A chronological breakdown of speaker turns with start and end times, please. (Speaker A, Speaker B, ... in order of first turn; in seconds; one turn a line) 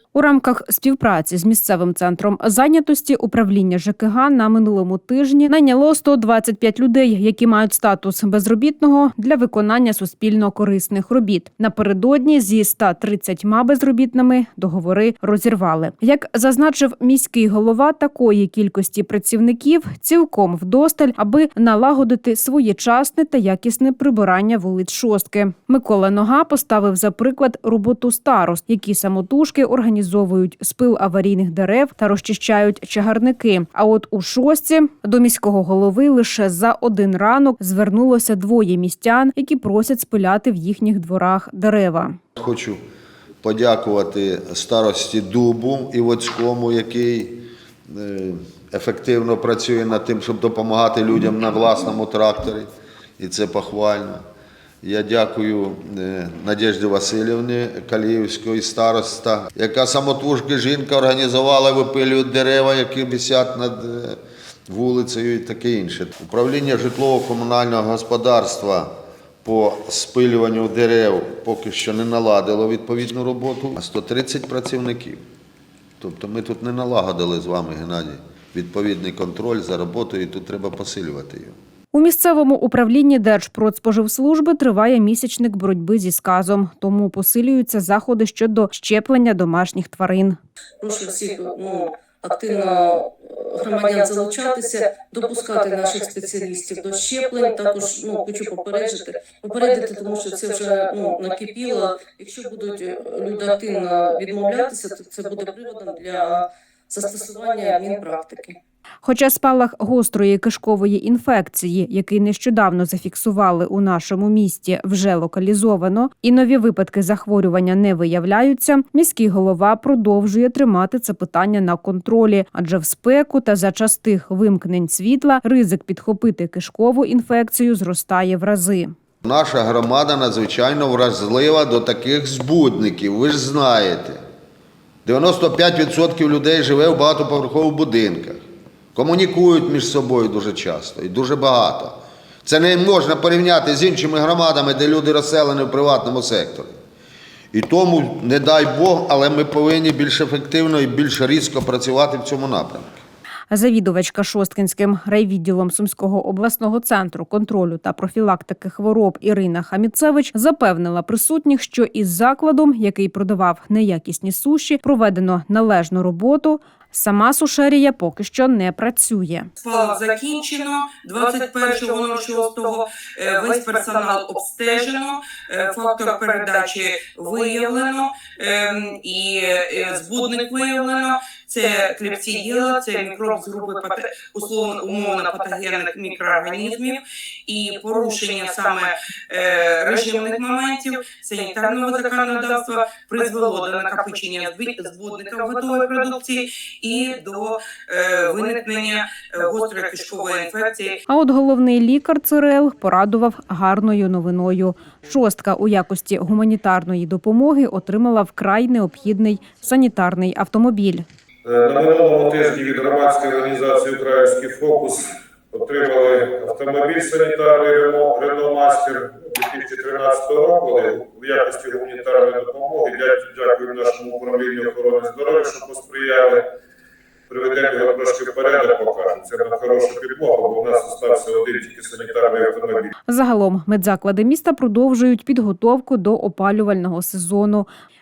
Speaker A: 0.1-42.2
Speaker B: 42.4-42.8
Speaker B: 43.4-54.2
Speaker B: 54.8-75.2
Speaker B: 76.0-81.5
Speaker A: 81.9-90.4
Speaker C: 90.8-108.6
Speaker A: 109.0-128.9
Speaker B: 129.2-134.2
Speaker B: 135.1-138.4
Speaker B: 138.9-146.8
Speaker B: 147.5-153.0
Speaker A: 153.5-169.5
Speaker D: 169.6-201.0
Speaker A: 201.1-211.1
Speaker E: 211.4-226.4
Speaker E: 227.3-232.9
Speaker A: 233.1-237.7